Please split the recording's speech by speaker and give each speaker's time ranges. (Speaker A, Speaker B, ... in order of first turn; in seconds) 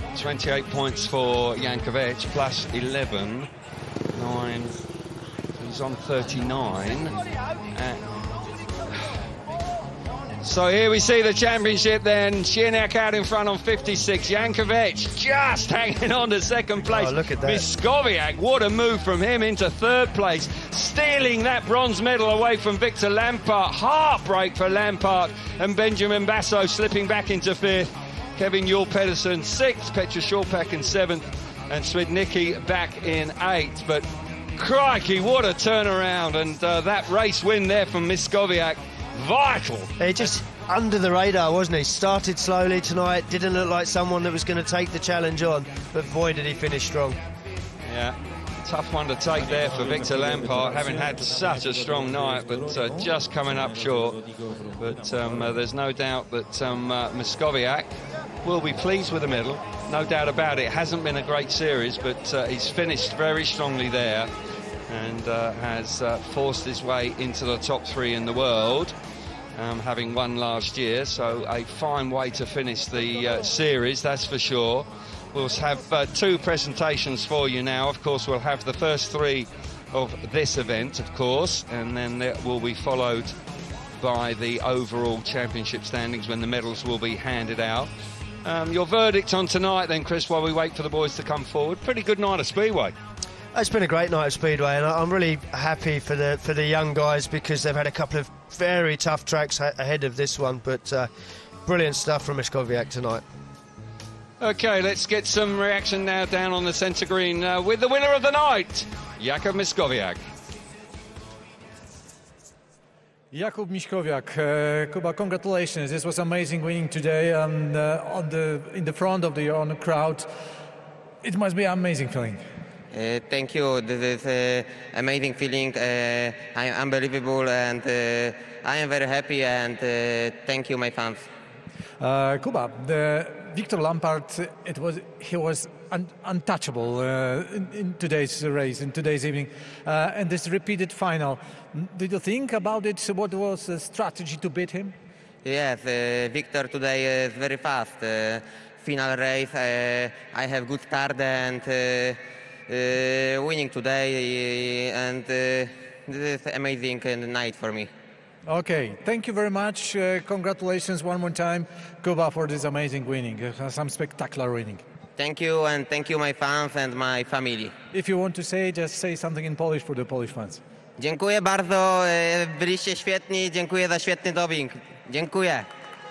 Speaker A: 0.1-3.5, 4.1-4.8, 5.6-7.1, 7.7-8.0, 10.4-40.3, 47.9-54.2, 54.8-64.3, 64.9-68.9, 69.6-83.3, 84.0-87.9, 88.4-92.9, 104.4-110.2
Speaker B: 16.9-17.7, 40.0-47.2, 93.5-101.1, 101.7-103.2
Speaker C: 113.3-120.3, 121.2-122.4, 132.0-144.9, 158.5-164.8, 167.9-170.6
Speaker D: 122.9-131.2, 145.4-157.9, 165.2-167.7, 171.0-175.7